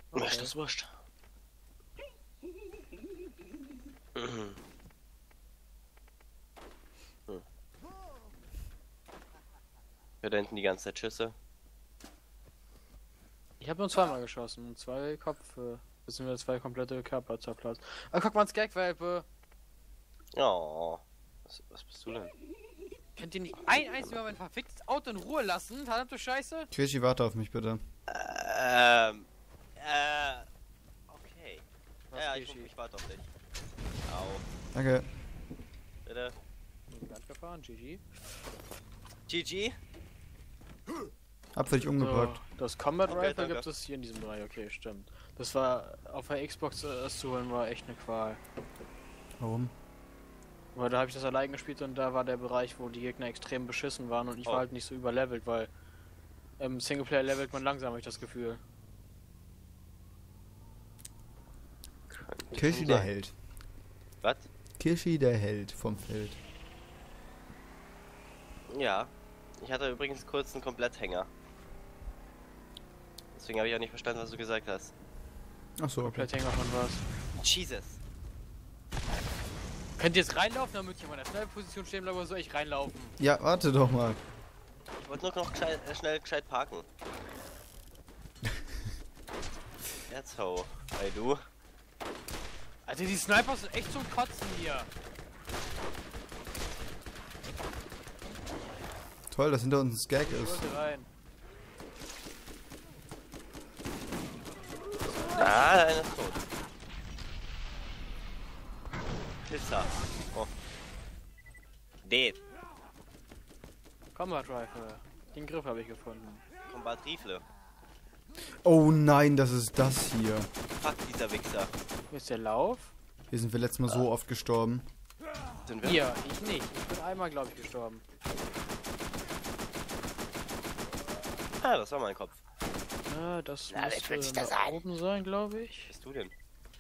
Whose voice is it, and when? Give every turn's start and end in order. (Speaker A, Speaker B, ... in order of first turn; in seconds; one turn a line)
Speaker A: 0.1-0.5
Speaker B: 0.1-0.9
Speaker B: 4.2-4.6
Speaker B: 10.2-11.3
Speaker A: 13.6-19.3
Speaker B: 20.3-22.3
Speaker A: 23.2-26.7
Speaker C: 26.7-27.8
Speaker B: 28.1-30.5
Speaker B: 31.1-33.3
Speaker A: 32.1-32.7
Speaker B: 34.1-34.4
Speaker C: 34.7-35.1
Speaker B: 36.1-36.4
Speaker A: 36.9-38.2
Speaker B: 39.3-39.8
Speaker C: 41.5-42.4
Speaker A: 42.0-48.4
Speaker B: 43.1-43.7
Speaker C: 49.4-49.7
Speaker A: 50.7-55.7
Speaker A: 56.6-58.6
Speaker B: 62.1-63.1
Speaker C: 62.5-63.4
Speaker B: 64.2-64.5
Speaker C: 64.8-66.4
Speaker B: 68.7-71.3
Speaker B: 73.3-74.9
Speaker C: 75.8-76.3
Speaker A: 76.0-77.0
Speaker B: 77.3-78.0
Speaker A: 80.0-83.2
Speaker C: 83.2-84.2
Speaker B: 85.0-86.9
Speaker B: 90.1-91.4
Speaker A: 92.9-94.9
Speaker C: 99.3-100.6
Speaker A: 100.2-101.1
Speaker A: 105.1-105.6
Speaker B: 105.3-106.5
Speaker B: 109.5-110.5
Speaker B: 112.0-112.4
Speaker A: 114.1-116.4
Speaker B: 116.7-117.4
Speaker C: 118.6-120.5
Speaker B: 120.8-121.7
Speaker A: 122.1-122.9
Speaker C: 123.3-124.8
Speaker B: 125.7-126.1
Speaker A: 125.8-128.0
Speaker B: 131.6-132.4
Speaker A: 133.1-135.9
Speaker B: 133.7-134.8
Speaker B: 135.9-136.3